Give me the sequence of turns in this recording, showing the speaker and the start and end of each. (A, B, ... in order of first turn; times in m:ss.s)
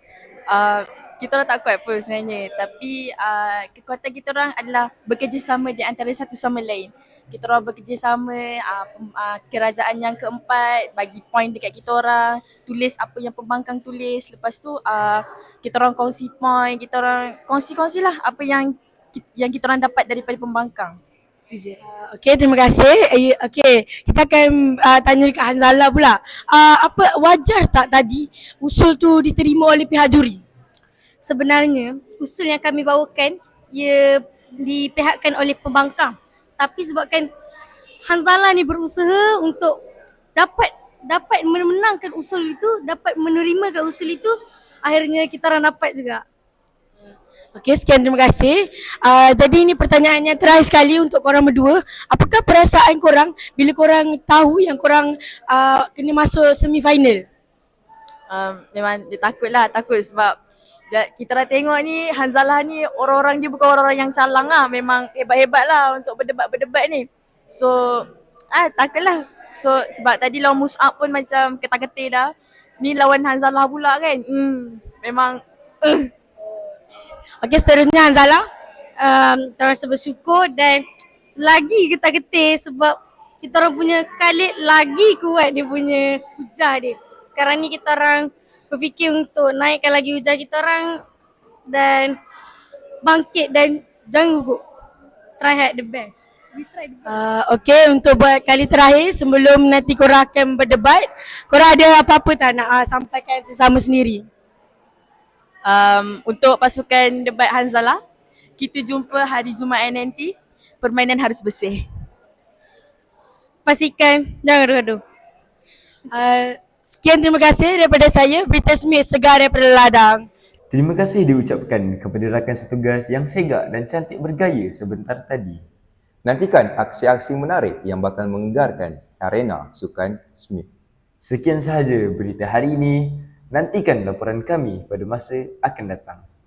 0:00.5-0:21.0 A
0:21.5-0:21.8 A
0:21.9-0:30.4 B
0:31.2-0:37.3 C
0:38.0-0:39.8 C
0:40.4-0:46.2 C
0:47.6-0:57.2 B
0:58.3-1:00.4 A
1:00.9-1:16.1 A
1:17.4-1:18.4 B
1:19.0-1:20.8 C
1:21.4-1:31.0 C
1:31.7-1:32.2 C
1:33.0-1:34.6 C
1:35.4-1:37.1 C
1:37.1-1:44.3 B
1:45.7-1:48.0 A
1:48.6-1:51.8 A
1:53.7-1:55.0 C
1:56.1-2:00.3 B
2:00.7-2:05.6 D
2:06.2-2:10.7 E
2:11.2-2:16.2 D